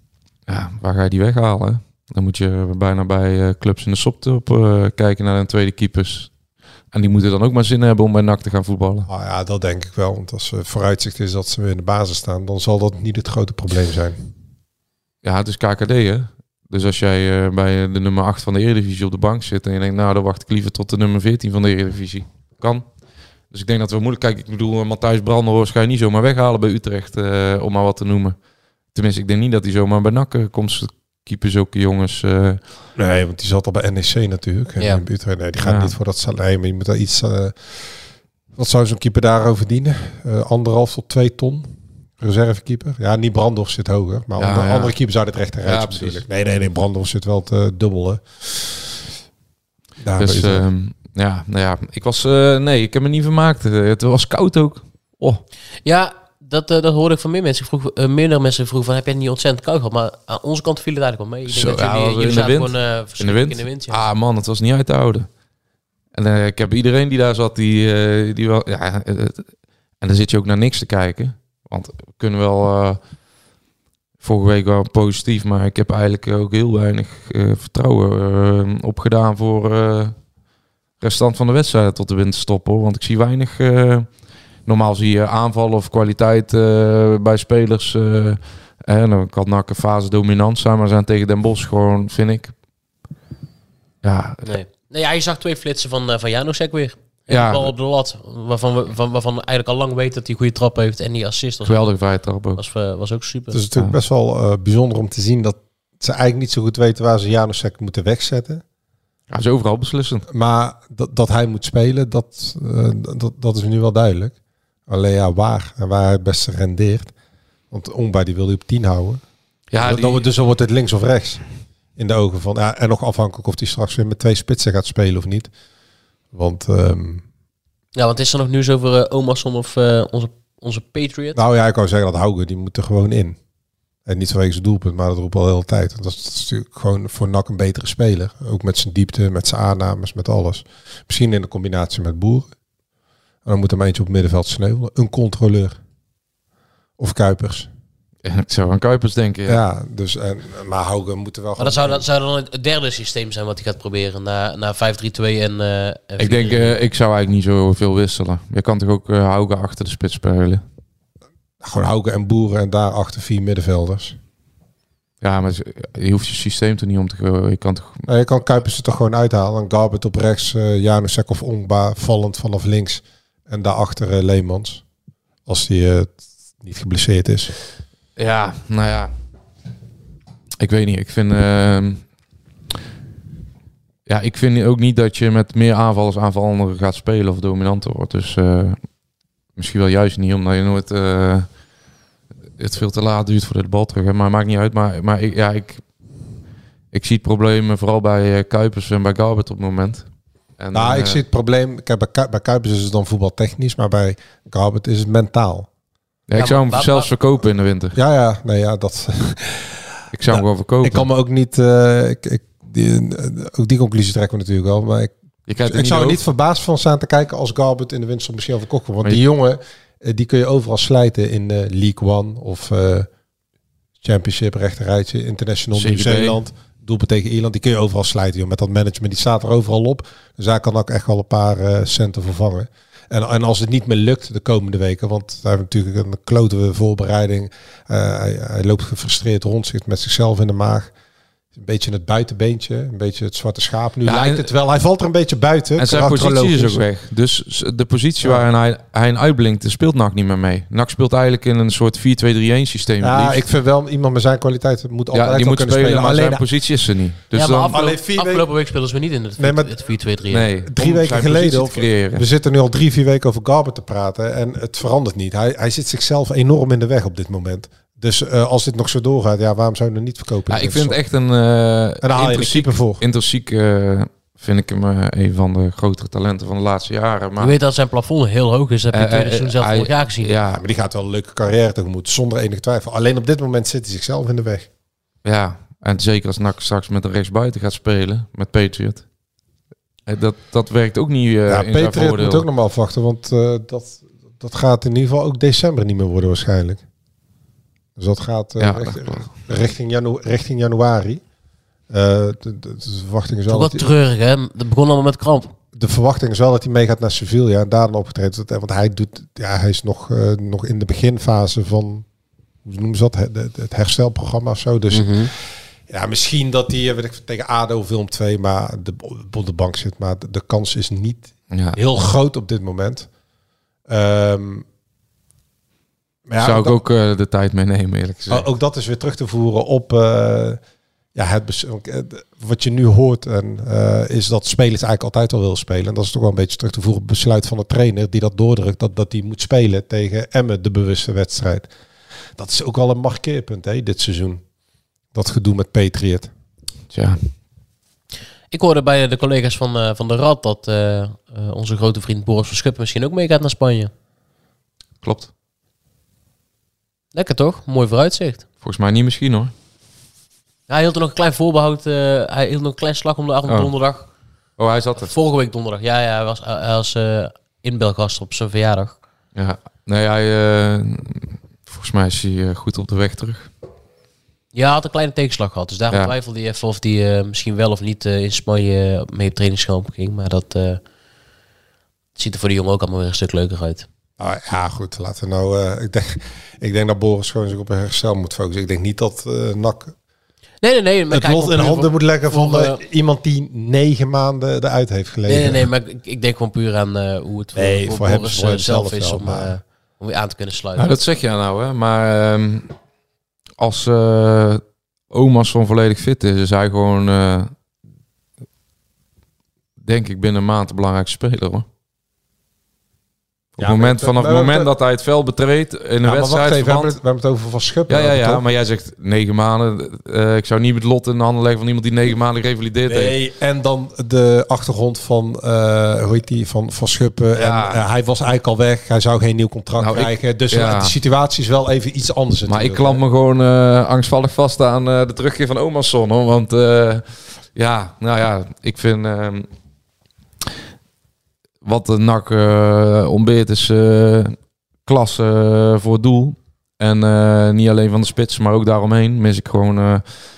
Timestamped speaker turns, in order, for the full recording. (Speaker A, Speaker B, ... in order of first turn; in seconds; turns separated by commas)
Speaker A: 0.5-6.3, Speaker A: 6.9-9.1, Speaker B: 9.1-14.2, Speaker A: 15.2-22.9, Speaker A: 23.5-28.4, Speaker A: 28.9-32.6, Speaker B: 33.0-37.6, Speaker A: 35.6-35.9, Speaker B: 38.6-48.9, Speaker A: 44.4-44.9, Speaker A: 45.6-46.2, Speaker B: 50.0-50.7, Speaker A: 50.2-55.4, Speaker C: 55.9-64.0, Speaker A: 61.5-65.3, Speaker A: 66.1-69.5, Speaker A: 70.0-73.0, Speaker A: 74.2-80.2, Speaker A: 81.0-84.1, Speaker A: 84.7-92.5, Speaker A: 94.0-94.5, Speaker C: 94.5-101.8, Speaker A: 97.3-97.7, Speaker A: 101.7-102.6, Speaker C: 102.6-103.6, Speaker B: 103.5-108.6, Speaker A: 109.3-110.3, Speaker B: 110.3-114.3, Speaker B: 114.9-117.1, Speaker B: 117.7-119.2, Speaker A: 119.7-120.3, Speaker B: 119.8-121.4, Speaker B: 122.0-125.5, Speaker B: 126.3-127.2, Speaker C: 128.0-131.4, Speaker B: 131.3-133.4, Speaker B: 134.1-142.5, Speaker B: 143.4-145.8, Speaker B: 147.0-147.7, Speaker A: 148.2-149.6, Speaker B: 149.5-152.0, Speaker C: 151.6-156.8, Speaker A: 156.2-160.6, Speaker B: 161.6-164.2, Speaker A: 165.2-168.0, Speaker B: 168.1-174.8, Speaker B: 175.5-177.5, Speaker A: 178.2-179.1, Speaker A: 180.6-182.0, Speaker A: 184.1-188.8, Speaker A: 189.6-191.5, Speaker A: 192.6-195.8, Speaker A: 196.9-200.1, Speaker A: 200.6-201.2, Speaker B: 200.7-205.7, Speaker A: 206.3-208.0, Speaker C: 206.4-207.1, Speaker B: 207.9-215.1, Speaker A: 210.1-211.1, Speaker A: 215.5-216.2, Speaker B: 215.7-223.1, Speaker B: 224.0-240.9, Speaker A: 225.8-226.4, Speaker B: 241.6-246.8, Speaker A: 244.1-244.5, Speaker A: 245.8-253.4, Speaker B: 253.0-256.4, Speaker A: 255.1-257.8, Speaker C: 257.3-260.5, Speaker B: 257.7-258.5, Speaker B: 259.4-259.9, Speaker A: 260.3-262.2, Speaker B: 260.6-271.0, Speaker A: 270.5-277.6, Speaker B: 272.0-273.0, Speaker C: 277.4-280.3, Speaker A: 278.9-280.6, Speaker B: 280.5-284.7, Speaker A: 285.2-289.0, Speaker A: 290.1-292.5, Speaker B: 291.5-296.8, Speaker B: 298.0-301.2, Speaker A: 298.6-299.4, Speaker B: 301.9-303.9, Speaker C: 303.5-305.5, Speaker B: 305.7-312.1, Speaker B: 312.6-323.1, Speaker C: 314.9-315.3, Speaker A: 321.5-321.8, Speaker B: 323.9-324.6, Speaker B: 326.3-326.8, Speaker A: 326.4-328.5, Speaker B: 328.3-330.6, Speaker B: 331.1-341.7, Speaker B: 342.4-344.4, Speaker B: 345.1-346.3, Speaker A: 346.9-347.2, Speaker C: 348.5-353.9, Speaker A: 355.0-355.3, Speaker C: 357.1-358.4, Speaker A: 358.6-359.5, Speaker C: 360.7-364.1, Speaker A: 364.6-365.1, Speaker C: 365.0-369.0, Speaker A: 369.4-373.5, Speaker C: 374.5-380.8, Speaker C: 382.2-383.9, Speaker B: 384.2-389.9, Speaker C: 390.6-392.8, Speaker B: 391.1-395.7, Speaker C: 395.3-400.9, Speaker B: 397.6-399.6, Speaker A: 400.8-402.7, Speaker A: 403.6-407.5, Speaker A: 409.8-411.7, Speaker A: 413.6-417.0, Speaker B: 413.6-414.7, Speaker B: 416.0-418.4, Speaker A: 417.9-423.2, Speaker B: 422.9-433.0, Speaker A: 427.4-427.8, Speaker A: 429.8-430.9, Speaker A: 432.5-439.5, Speaker A: 441.6-450.1